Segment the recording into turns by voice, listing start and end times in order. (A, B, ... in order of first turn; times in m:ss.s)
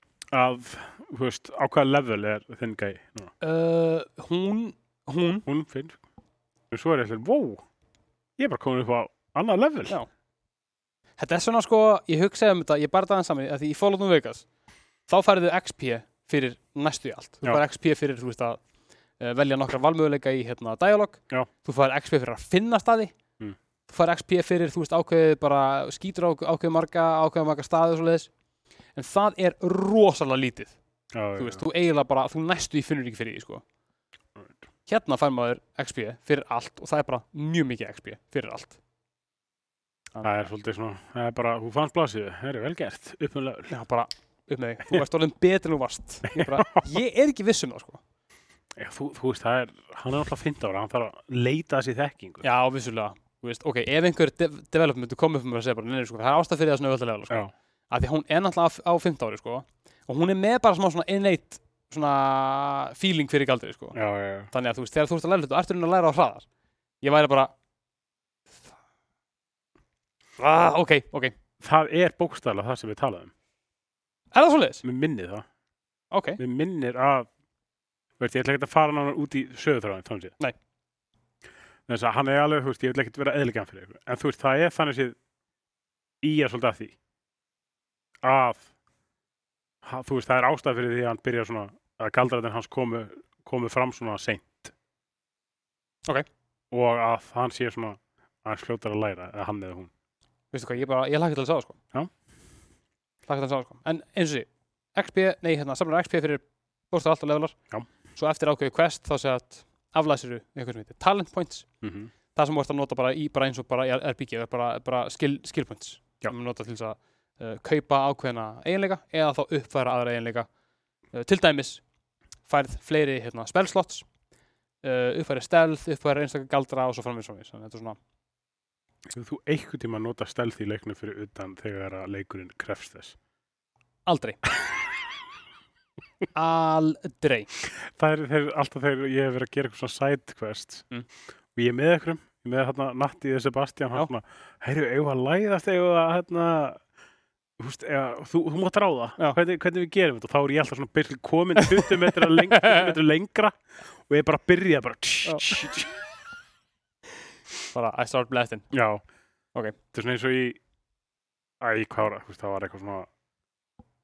0:00.3-0:03.3 A
0:03.4-0:05.4 B
0:05.4-0:06.0 A
0:06.7-0:07.6 A
0:08.4-0:10.0 A
0:11.2-0:14.4 B
0:15.1-0:18.6 B
0:19.2-0:23.1 B
0:23.9-0:28.3 B
0:29.0-0:30.8 B
0:31.1-0:31.6 A
0:31.4-0:33.6 B
0:34.8-0:38.8 B
0:40.2-0:43.7 A
0:43.7-0:48.0 B
0:46.3-0:46.9 A
0:48.7-0:52.4 A
0:52.4-1:04.0 B
1:03.9-1:04.5 A
1:04.5-1:06.4 B
1:07.0-1:07.5 B
1:10.4-1:11.3 B
1:11.6-1:13.3 A
1:14.3-1:14.8 B
1:14.8-1:15.4 A
1:16.1-1:16.4 B
1:16.4-1:17.3 A
1:18.2-1:20.3 A
1:21.9-1:25.2 A
1:26.2-1:26.9 A
1:28.2-1:28.7 A
1:29.8-1:34.7 A
1:36.7-1:39.9 A
1:40.5-1:41.8 B
1:43.3-1:47.6 B
1:48.1-1:51.6 B
1:51.8-1:52.1 A
1:52.3-2:00.5 B
2:01.1-2:01.8 B
2:02.5-2:04.0 B
2:04.8-2:08.0 B
2:09.1-2:13.2 A
2:14.1-2:14.4 B
2:16.3-2:17.5 B
2:17.8-2:20.8 A
2:21.5-2:26.8 A
2:27.6-2:35.9 A
2:31.6-2:32.9 B
2:35.2-2:35.5 B
2:37.7-2:38.7 B
2:38.7-2:39.0 A
2:39.9-2:40.6 A
2:41.6-2:43.1 A